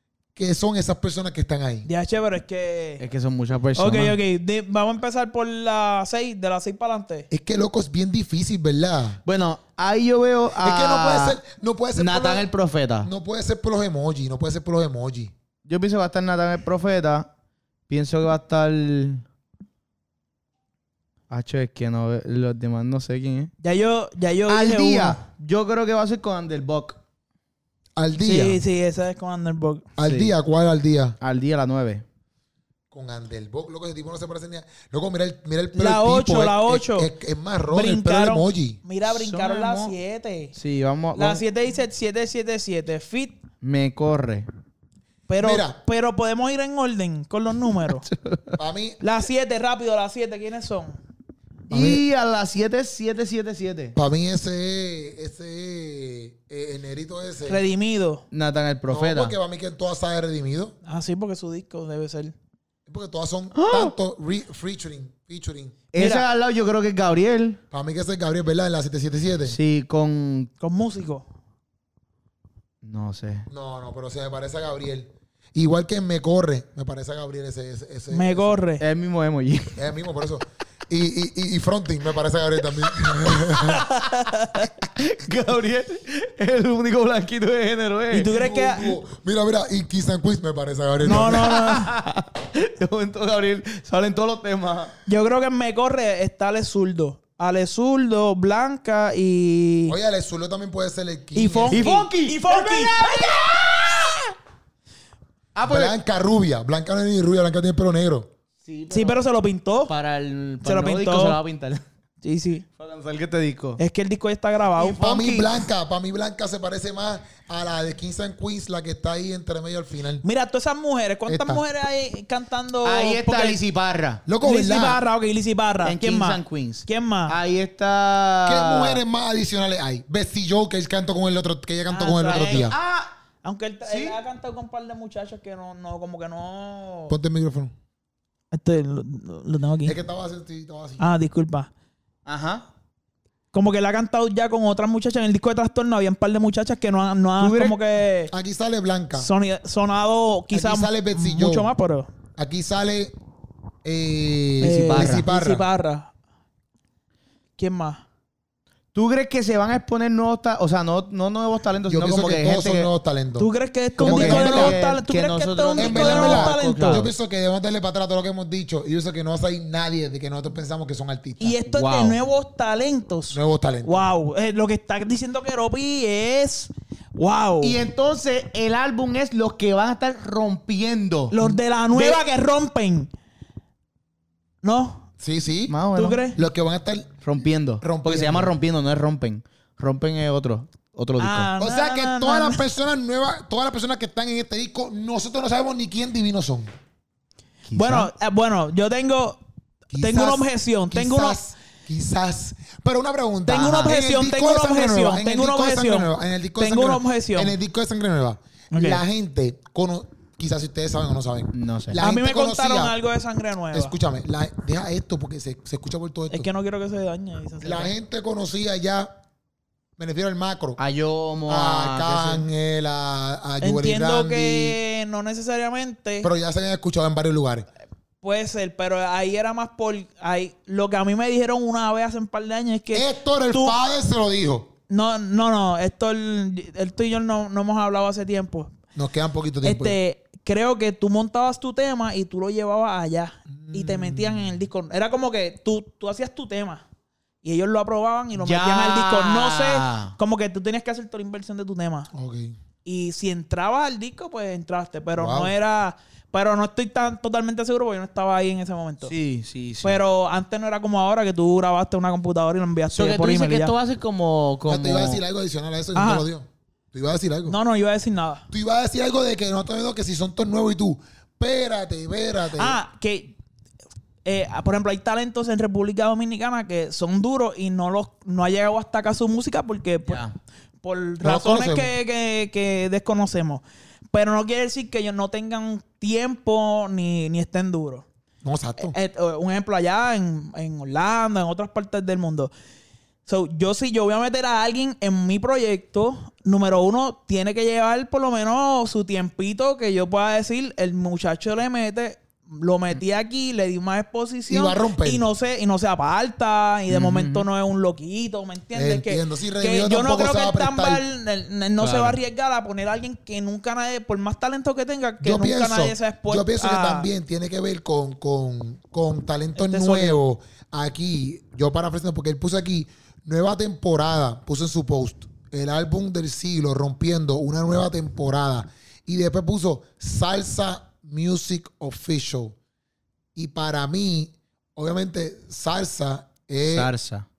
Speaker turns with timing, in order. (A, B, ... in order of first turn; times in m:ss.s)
0:00.4-0:01.9 A
0:01.8-0:03.0 B
0:03.0-0:04.2 C
0:03.8-0:07.3 B
0:07.3-0:09.2 A
0:09.2-0:11.4 C
0:10.6-0:12.5 A
0:12.0-0:13.1 C
0:13.0-0:15.3 A
0:15.7-0:17.3 C
0:17.9-0:19.2 C
0:21.3-0:23.5 C
0:23.6-0:25.2 B
0:24.5-0:27.0 C
0:28.0-0:28.6 A
0:28.2-0:29.9 B
0:30.0-0:31.2 A
0:30.0-0:30.3 C
0:31.2-0:32.0 C
0:32.9-0:38.8 A
0:35.7-0:37.1 B
0:37.7-0:40.5 B
0:39.1-0:40.0 C
0:40.6-0:41.4 C
0:41.2-0:43.4 B
0:43.6-0:44.5 C
0:45.3-0:48.1 B
0:45.4-0:45.8 A
0:47.9-0:48.6 C
0:48.6-0:49.0 A
0:49.0-0:51.0 B
0:51.7-0:54.0 C
0:51.7-0:52.0 A
0:54.0-0:57.6 A
0:57.4-0:58.2 B
0:58.3-0:59.4 C
0:58.9-1:00.8 A
1:00.8-1:02.3 B
1:02.9-1:05.8 A
1:03.5-1:04.0 C
1:05.9-1:07.6 C
1:06.0-1:06.2 B
1:07.7-1:09.6 A
1:09.5-1:10.5 C
1:10.6-1:11.3 B
1:12.8-1:13.5 C
1:13.5-1:18.5 A
1:18.1-1:18.8 B
1:18.8-1:19.8 C
1:19.8-1:23.8 A
1:22.9-1:23.9 C
1:23.6-1:24.7 B
1:24.8-1:28.3 C
1:28.1-1:29.0 B
1:28.3-1:31.6 A
1:31.0-1:31.9 B
1:31.1-1:34.9 C
1:35.1-1:40.0 B
1:39.9-1:41.8 A
1:41.4-1:43.2 B
1:41.7-1:44.3 C
1:45.6-1:46.0 C
1:45.7-1:48.3 A
1:48.6-1:49.2 C
1:48.9-1:49.9 B
1:49.9-1:51.8 C
1:50.6-1:51.4 B
1:52.2-1:52.6 B
1:52.8-1:53.8 C
1:53.8-1:55.0 B
1:54.8-1:55.6 C
1:55.0-2:00.2 A
2:00.2-2:03.6 B
2:01.3-2:01.6 A
2:02.8-2:04.3 C
2:04.3-2:05.0 A
2:04.4-2:07.4 B
2:05.8-2:09.0 C
2:08.4-2:12.8 A
2:11.9-2:12.7 B
2:12.2-2:13.1 C
2:13.4-2:17.2 B
2:13.8-2:14.2 C
2:17.1-2:17.7 A
2:18.5-2:20.0 B
2:19.8-2:21.1 A
2:21.0-2:21.7 B
2:22.3-2:22.7 C
2:23.5-2:28.3 B
2:27.4-2:27.8 C
2:28.3-2:29.3 A
2:29.2-2:32.1 B
2:30.5-2:31.7 A
2:32.4-2:33.2 A
2:33.8-2:35.7 A
2:34.6-2:36.1 B
2:34.6-2:35.3 C
2:37.6-2:38.0 B
2:38.9-2:42.9 C
2:41.9-2:44.8 A
2:43.4-2:47.1 B
2:44.0-2:47.1 C
2:45.8-2:51.6 A
2:51.4-2:57.8 B
2:51.7-2:52.2 C
2:53.3-2:54.0 A
2:57.6-3:02.2 C
3:01.3-3:03.1 B
3:04.6-3:05.1 B
3:05.2-3:05.8 A
3:05.7-3:06.3 C
3:06.0-3:06.4 B
3:06.4-3:07.1 A
3:07.2-3:11.5 C
3:07.8-3:08.5 A
3:11.2-3:12.6 B
3:11.6-3:16.7 A
3:17.6-3:18.1 C
3:17.8-3:19.4 B
3:19.9-3:33.0 A
3:20.0-3:21.4 B
3:23.5-3:27.6 B
3:23.5-3:24.0 C
3:28.7-3:29.0 B
3:31.5-3:32.0 C
3:32.0-3:34.0 B
3:33.7-3:36.5 A
3:36.3-3:37.9 B
3:37.6-3:39.1 A
3:40.0-3:40.8 A
3:40.8-3:42.5 C
3:41.5-3:44.8 A
3:43.6-3:46.3 B
3:46.2-3:47.7 A
3:48.2-3:53.8 B
3:52.9-3:54.7 A
3:54.9-3:58.7 B
3:59.0-4:00.0 A
3:59.6-4:06.8 B
4:03.6-4:04.6 A
4:07.4-4:12.1 B
4:08.4-4:10.2 C
4:12.1-4:12.6 A
4:12.8-4:19.1 B
4:15.2-4:15.5 A
4:19.1-4:20.0 C
4:19.8-4:23.7 B
4:22.9-4:25.2 C
4:24.7-4:27.6 A
4:26.0-4:26.3 B
4:27.5-4:28.5 B
4:28.5-4:32.8 A
4:32.6-4:33.3 B
4:34.2-4:40.2 B
4:40.1-4:40.4 C
4:40.8-4:48.0 B
4:41.2-4:41.9 A
4:48.4-4:48.9 A
4:48.8-4:52.5 B
4:53.3-5:17.1 B
5:04.5-5:05.3 A
5:06.9-5:07.5 C
5:08.7-5:11.0 A
5:11.8-5:12.2 C
5:15.2-5:32.6 A
5:19.6-5:20.2 B
5:33.4-5:36.9 A
5:36.6-5:37.3 C